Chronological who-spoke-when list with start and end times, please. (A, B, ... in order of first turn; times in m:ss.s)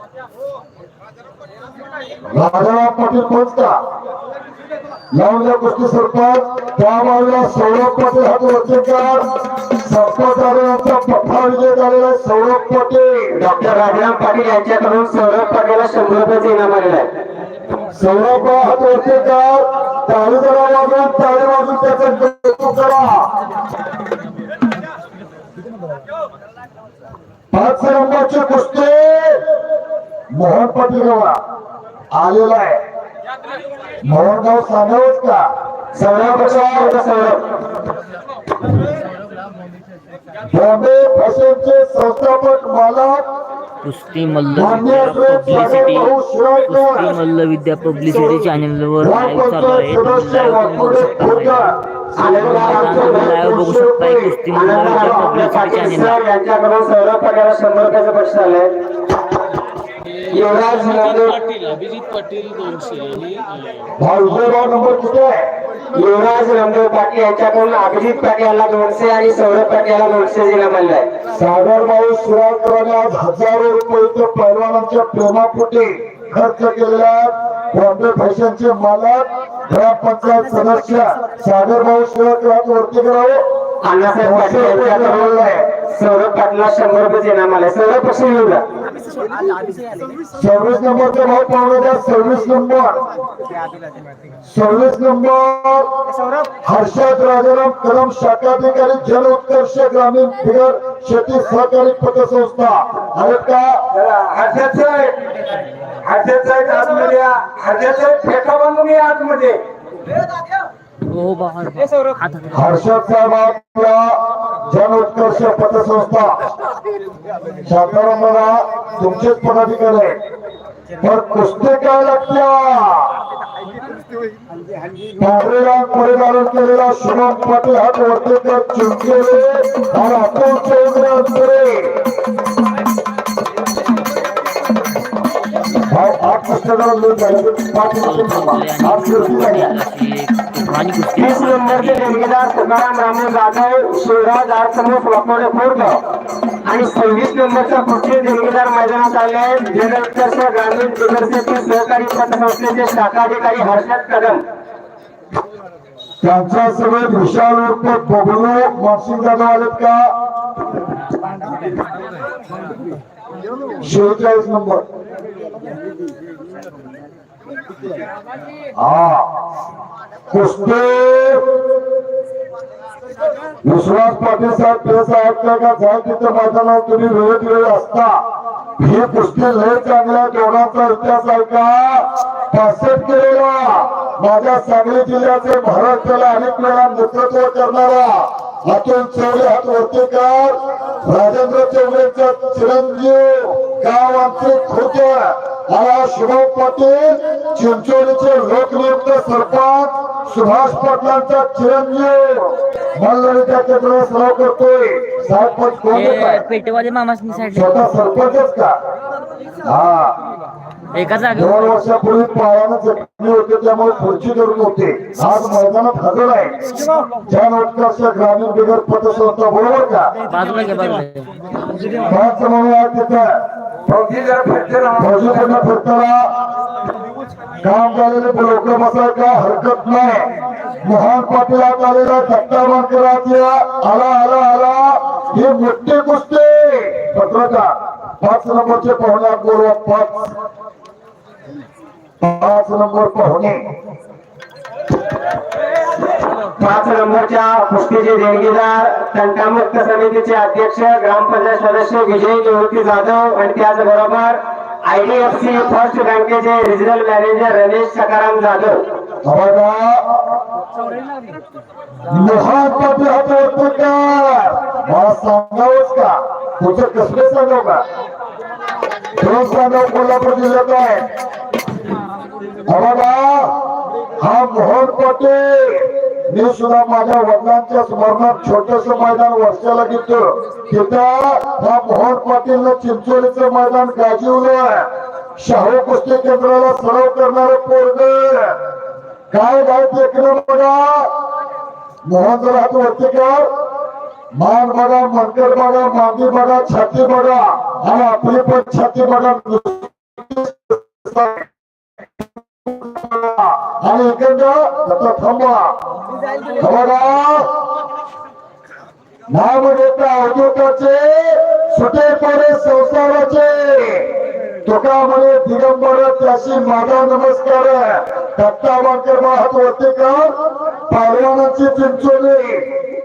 0:02.3-0:03.8 A
0:05.1-0:13.4 A
0:13.4-0:17.1 B
0:17.9-0:23.3 A
0:27.5-0:29.4 A
0:30.3-0:31.4 A
0:32.1-0:32.8 A
0:34.0-0:35.4 A
0:36.0-0:37.5 B
0:36.0-0:37.0 A
0:40.5-0:43.2 A
0:43.8-0:46.1 C
0:44.6-0:47.1 A
0:46.7-0:56.2 C
0:49.0-0:54.3 A
0:52.2-0:53.5 B
0:54.5-0:58.7 B
1:00.1-1:03.9 D
1:00.3-1:01.4 B
1:04.0-1:05.5 A
1:05.9-1:11.1 B
1:11.3-1:23.4 A
1:23.8-1:28.6 B
1:24.2-1:25.6 A
1:29.0-1:30.2 D
1:30.3-1:33.0 A
1:34.4-1:35.9 A
1:36.6-1:43.8 A
1:44.1-1:45.1 B
1:46.0-1:49.6 B
1:51.1-1:52.7 C
1:52.5-1:56.4 A
1:57.6-2:00.2 A
2:01.0-2:03.1 A
2:05.2-2:12.1 A
2:15.7-2:19.7 A
2:18.0-2:22.2 C
2:21.2-2:26.0 B
2:26.6-2:34.4 B
2:36.2-2:40.1 A
2:43.8-2:44.8 A
2:48.8-2:49.3 A
2:50.3-2:51.6 A
2:53.6-2:58.2 A
2:58.8-3:26.4 A
3:25.9-3:27.8 C
3:27.5-3:28.8 A
3:29.6-3:30.2 A
3:30.9-3:31.6 C
3:31.3-3:36.6 A
3:37.3-3:40.1 A
3:40.3-3:41.3 C
3:41.6-3:42.0 D
3:42.0-3:44.4 A
3:44.4-3:44.9 B
3:44.9-3:46.3 A
3:47.6-3:50.3 A
3:50.8-4:00.3 A
4:02.2-4:03.6 A
4:06.4-4:18.8 B
4:19.2-4:20.1 A
4:22.0-4:27.8 A
4:29.2-4:31.1 A
4:32.6-4:33.6 A
4:34.2-4:48.6 A
4:49.3-4:51.2 A
4:52.0-4:53.5 A
4:54.3-5:01.5 A
5:02.2-5:05.7 A
5:06.2-5:06.6 D
5:06.6-5:07.5 A
5:09.3-5:14.1 A
5:14.6-5:20.4 A
5:20.9-5:22.7 A